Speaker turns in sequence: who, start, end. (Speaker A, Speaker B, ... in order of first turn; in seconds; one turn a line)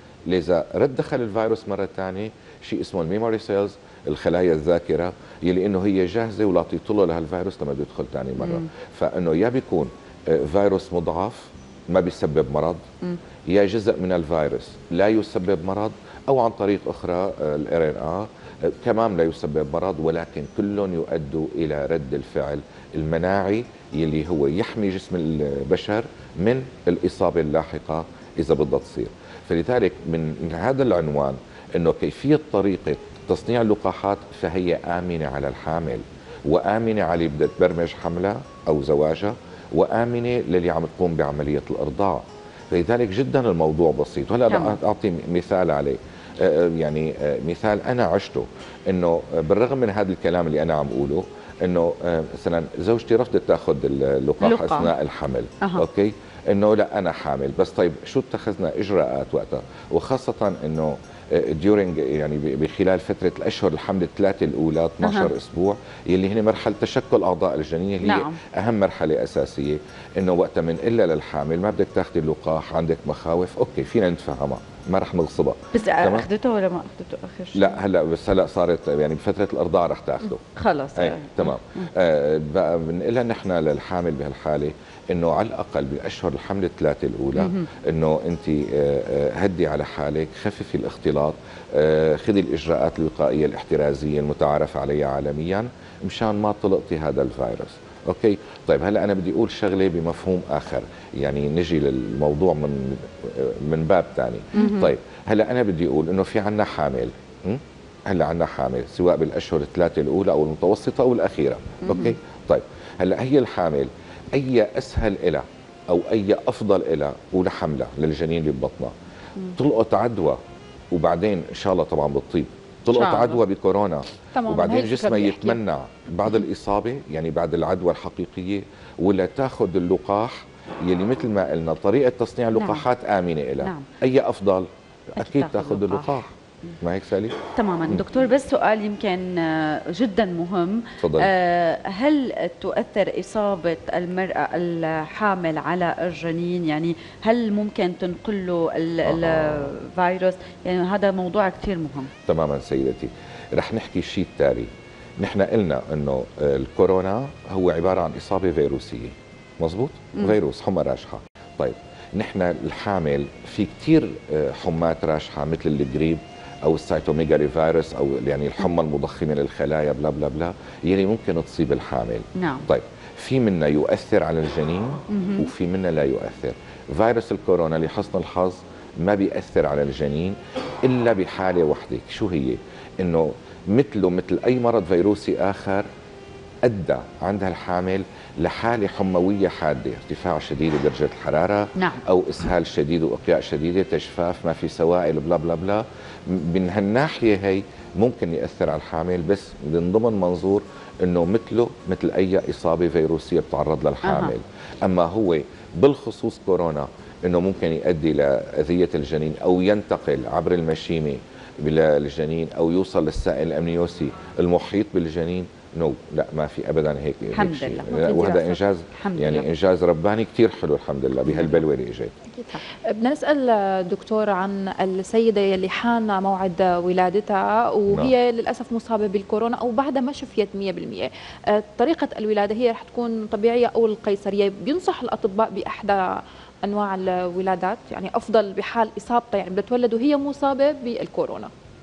Speaker A: 0.3-12.8
Speaker B: 8.4-8.7
Speaker A: 13.5-76.3
Speaker B: 44.5-44.8
Speaker B: 54.4-54.9
Speaker B: 55.6-55.9
Speaker B: 65.0-65.3
Speaker B: 68.0-68.3
Speaker B: 75.7-77.8
Speaker A: 77.5-118.9
Speaker B: 80.6-81.9
Speaker B: 87.3-87.7
Speaker B: 104.5-104.9
Speaker B: 111.8-112.1
Speaker A: 119.5-120.4
Speaker A: 120.9-138.1
Speaker B: 122.9-123.4
Speaker C: 124.3-125.6
Speaker B: 132.6-132.8
Speaker B: 133.6-133.9
Speaker B: 135.2-136.2
Speaker B: 137.5-152.1
Speaker A: 141.0-141.3
Speaker A: 149.0-149.7
Speaker A: 152.2-154.7
Speaker A: 155.2-185.8
Speaker B: 172.4-172.7
Speaker B: 175.1-175.5
Speaker A: 186.6-222.2
Speaker B: 204.0-204.3
Speaker B: 217.3-217.9
Speaker C: 217.9-218.6
Speaker B: 218.9-219.5
Speaker B: 221.3-221.6
Speaker C: 222.3-236.0
Speaker C: 236.6-241.5